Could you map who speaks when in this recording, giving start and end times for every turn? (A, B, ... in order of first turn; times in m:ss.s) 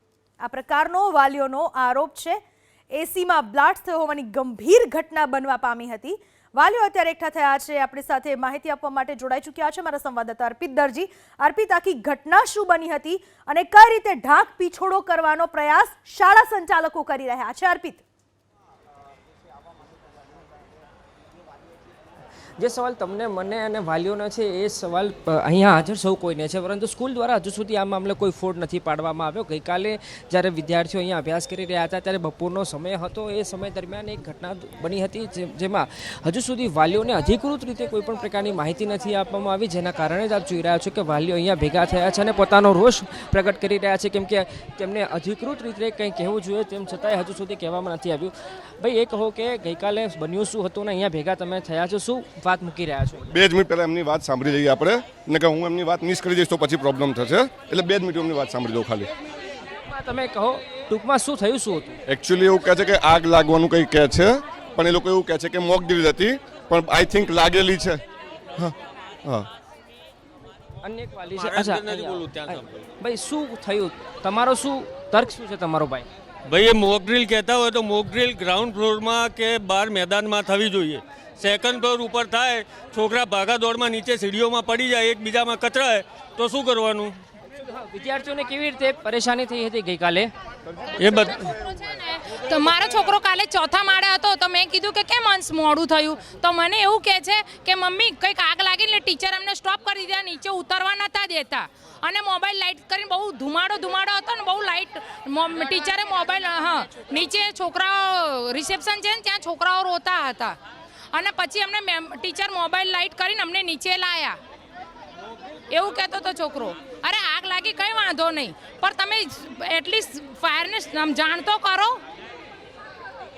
0:00.4-0:02.4 A
0:02.9-0:18.0 A
0:22.6-0:53.3 B
0:53.3-0:59.1 C
0:59.9-1:02.0 B
1:02.1-1:08.0 C
1:10.8-1:16.1 B
1:11.4-1:12.6 D
1:16.5-1:27.2 D
1:27.6-1:30.3 B
1:31.0-1:31.5 D
1:31.1-1:50.6 E
1:51.1-1:54.4 E
1:55.7-2:02.0 E